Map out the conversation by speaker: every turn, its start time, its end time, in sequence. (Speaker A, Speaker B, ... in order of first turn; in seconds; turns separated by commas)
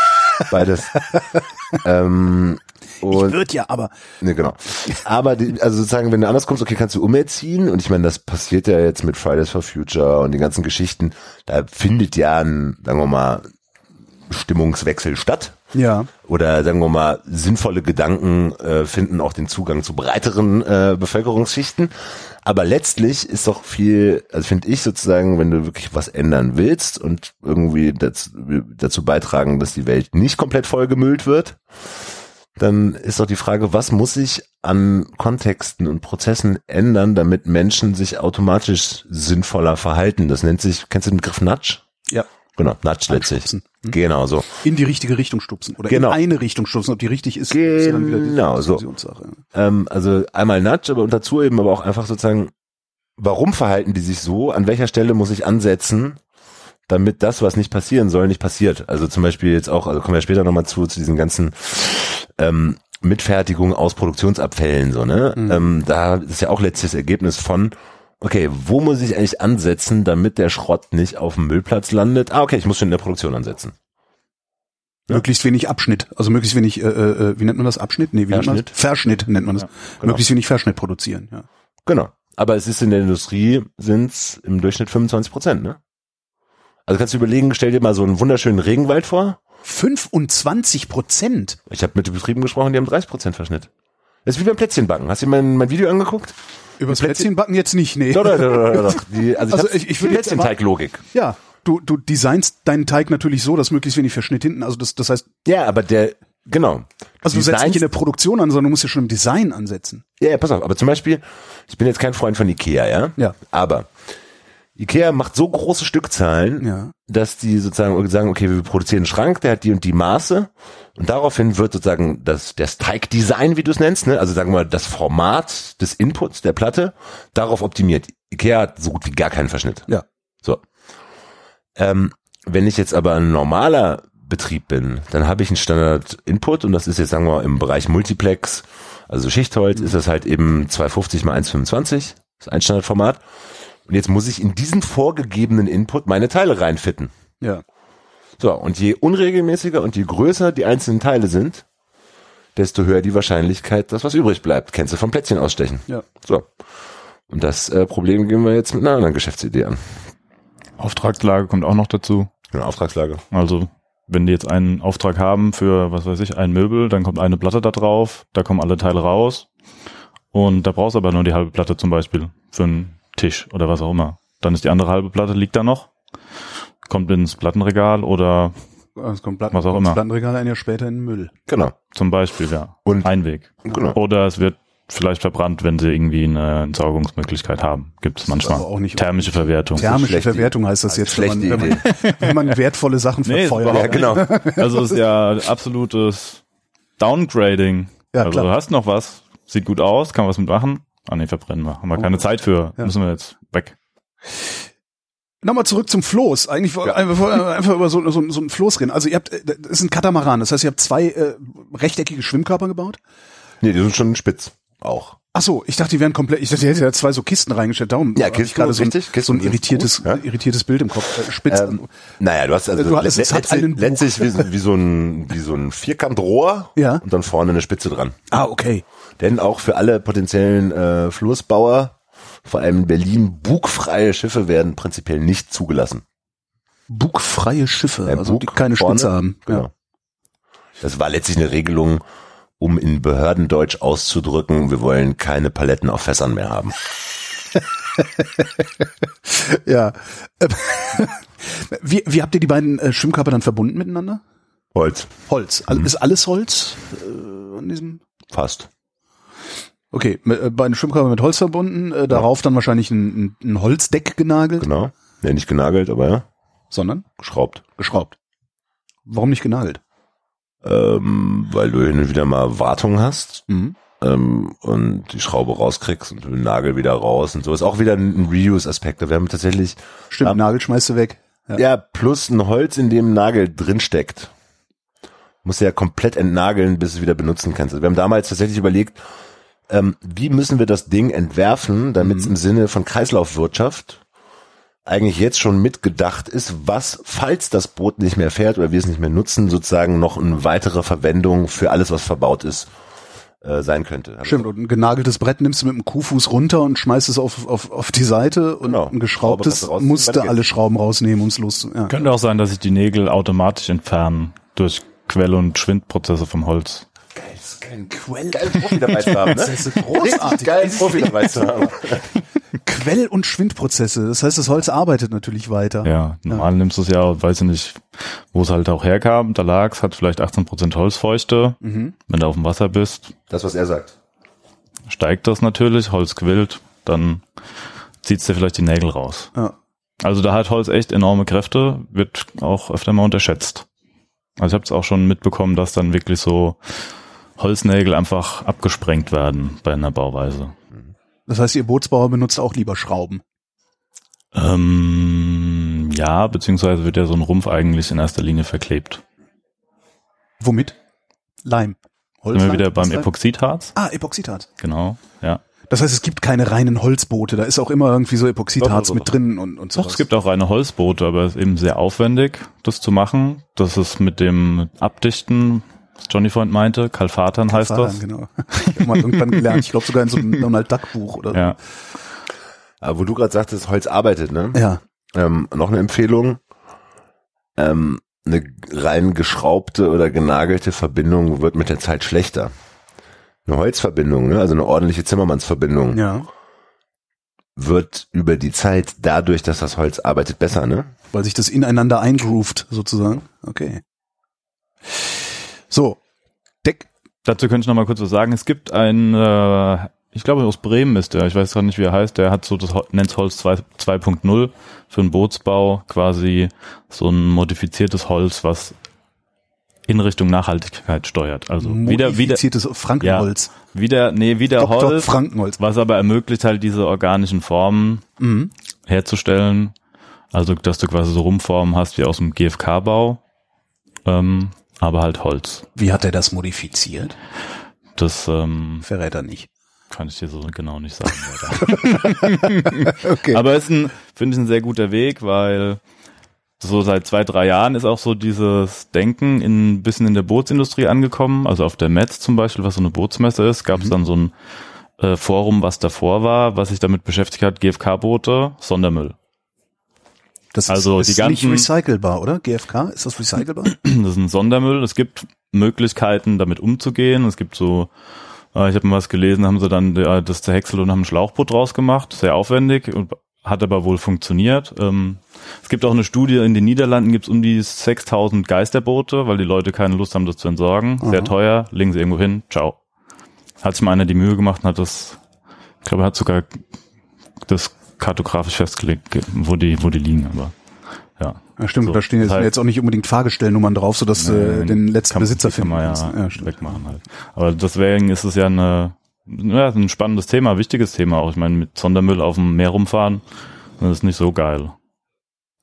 Speaker A: 0.5-1.0, Speaker B: 1.1-1.4, Speaker A: 1.8-3.4, Speaker B: 3.1-3.9, Speaker A: 4.2-13.5, Speaker A: 14.3-15.6, Speaker B: 15.7-16.1, Speaker A: 16.2-31.6, Speaker A: 32.6-41.8, Speaker A: 42.6-44.6, Speaker B: 43.1-44.0, Speaker B: 44.6-49.4, Speaker A: 45.9-46.2, Speaker A: 47.5-48.8, Speaker A: 49.5-52.5, Speaker A: 53.2-56.2, Speaker A: 56.9-73.8, Speaker B: 65.4-65.7, Speaker B: 75.1-81.5, Speaker A: 78.3-78.7, Speaker A: 81.9-85.8, Speaker A: 86.9-89.4, Speaker B: 89.6-91.6, Speaker A: 91.7-93.7, Speaker A: 94.2-96.3, Speaker B: 96.8-100.5, Speaker A: 96.9-97.3, Speaker A: 98.1-101.0, Speaker B: 101.1-105.3, Speaker A: 105.5-107.8, Speaker B: 107.2-110.0, Speaker A: 110.2-113.9, Speaker A: 114.8-129.9, Speaker B: 116.6-116.9, Speaker A: 131.8-143.2, Speaker A: 143.9-147.1, Speaker A: 148.4-151.7, Speaker A: 152.6-156.5, Speaker A: 157.3-159.9, Speaker C: 160.8-162.3, Speaker A: 162.5-163.2, Speaker C: 163.3-169.5, Speaker C: 170.3-175.9, Speaker C: 176.9-178.6, Speaker B: 179.0-181.3, Speaker C: 179.5-180.0, Speaker A: 181.5-181.8, Speaker C: 181.9-189.9, Speaker A: 183.6-184.0, Speaker B: 188.4-195.0, Speaker A: 189.8-191.8, Speaker C: 191.7-192.4, Speaker C: 193.2-196.4, Speaker A: 193.7-194.3, Speaker C: 197.0-203.8, Speaker B: 198.1-198.5, Speaker B: 205.4-213.0, Speaker A: 213.6-215.2, Speaker B: 215.3-221.9, Speaker A: 218.2-220.2, Speaker A: 221.4-228.2, Speaker B: 222.8-224.5, Speaker B: 226.8-227.0, Speaker B: 228.3-228.8, Speaker A: 229.2-236.0, Speaker B: 236.9-239.7, Speaker A: 238.1-239.7, Speaker A: 240.8-242.0, Speaker A: 242.6-246.8, Speaker B: 248.0-248.6, Speaker B: 249.3-254.2, Speaker A: 254.8-255.1, Speaker B: 255.3-258.0, Speaker A: 258.3-258.7, Speaker B: 259.9-264.7, Speaker A: 264.6-266.3, Speaker B: 266.7-267.1, Speaker A: 267.2-267.6, Speaker B: 267.8-268.1, Speaker B: 269.1-269.8, Speaker A: 270.6-273.5, Speaker B: 273.5-273.8, Speaker A: 274.0-280.4, Speaker B: 280.1-281.6, Speaker A: 281.6-284.3, Speaker A: 285.4-289.0, Speaker A: 289.7-294.0, Speaker B: 292.0-292.3, Speaker A: 294.9-302.7, Speaker A: 303.4-304.5, Speaker B: 304.2-312.0, Speaker A: 308.6-310.4, Speaker C: 311.9-316.9, Speaker A: 317.1-322.1, Speaker B: 318.3-321.4, Speaker B: 322.6-326.5, Speaker C: 325.8-333.1, Speaker B: 331.6-331.9, Speaker A: 333.3-333.9, Speaker C: 334.9-337.2, Speaker C: 338.0-339.3, Speaker C: 340.0-343.7, Speaker C: 344.4-346.9, Speaker C: 347.4-350.6, Speaker B: 351.3-353.2, Speaker C: 354.3-359.0, Speaker B: 360.4-360.8, Speaker B: 361.4-363.1, Speaker C: 362.3-363.7, Speaker B: 363.8-364.5, Speaker C: 364.6-365.4, Speaker B: 365.7-370.0, Speaker A: 368.6-369.1, Speaker C: 369.8-378.0, Speaker B: 377.5-381.5, Speaker C: 378.6-379.5, Speaker A: 382.8-384.6, Speaker B: 384.5-384.8, Speaker A: 385.1-386.4, Speaker A: 387.6-392.5, Speaker A: 393.5-396.0, Speaker B: 395.9-396.3, Speaker A: 397.6-400.9, Speaker B: 401.1-403.8, Speaker B: 405.7-406.0, Speaker B: 406.6-406.9, Speaker C: 407.2-418.8, Speaker C: 419.9-422.4, Speaker B: 421.6-423.5, Speaker C: 423.0-428.0, Speaker B: 424.6-425.6, Speaker B: 428.2-428.5, Speaker C: 428.9-429.7, Speaker C: 430.3-433.2, Speaker C: 434.1-435.7, Speaker B: 435.8-437.2, Speaker C: 437.9-438.9, Speaker B: 438.9-439.5, Speaker C: 439.9-445.8, Speaker B: 441.6-443.4, Speaker C: 446.6-454.3, Speaker C: 455.0-459.1, Speaker B: 460.5-463.8, Speaker C: 460.7-461.7, Speaker C: 463.7-467.9, Speaker C: 468.5-482.8, Speaker B: 481.0-481.3, Speaker C: 483.6-485.2, Speaker C: 485.9-486.6, Speaker C: 487.5-490.5, Speaker C: 491.2-492.5, Speaker B: 491.6-496.5, Speaker C: 494.2-503.2, Speaker C: 503.8-504.8